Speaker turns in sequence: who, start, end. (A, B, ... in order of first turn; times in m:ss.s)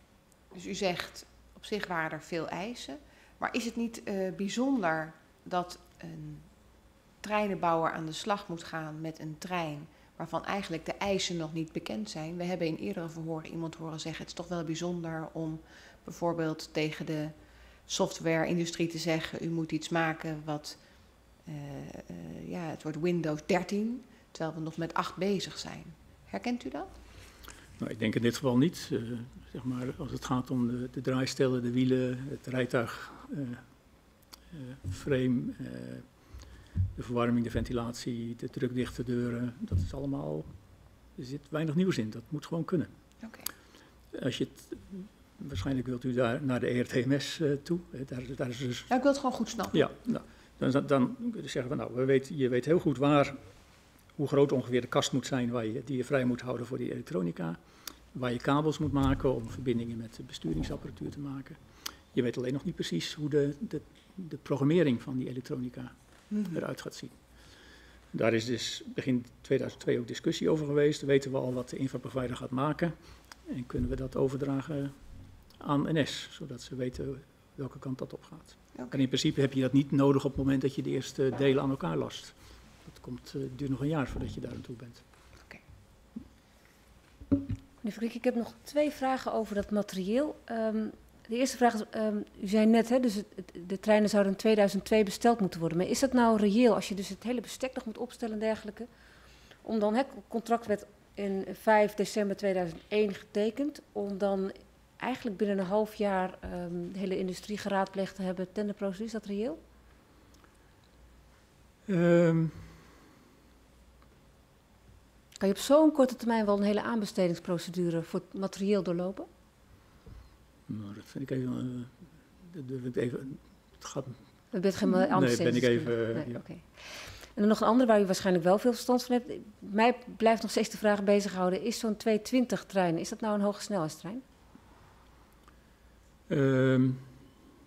0:00.5-0:17.3 A
0:17.9-0:26.9 A
0:27.8-0:33.6 B
0:34.5-0:36.1 B
0:37.0-0:40.5 B
0:41.2-0:42.9 B
0:43.2-0:43.5 A
0:44.1-0:48.9 B
0:48.9-0:49.9 A
0:49.7-0:53.4 B
0:54.2-0:57.6 B
0:58.1-1:01.6 B
1:02.1-1:05.9 B
1:06.3-1:06.6 A
1:06.4-1:07.2 B
1:08.1-1:13.0 B
1:13.5-1:15.0 B
1:15.6-1:25.0 B
1:27.8-1:38.9 C
1:39.6-1:49.6 C
1:51.9-1:52.8 B
1:55.4-1:59.3 C
2:00.7-2:04.2 B
2:04.5-2:14.2 C
2:04.9-2:06.4 B
2:16.3-2:17.1 B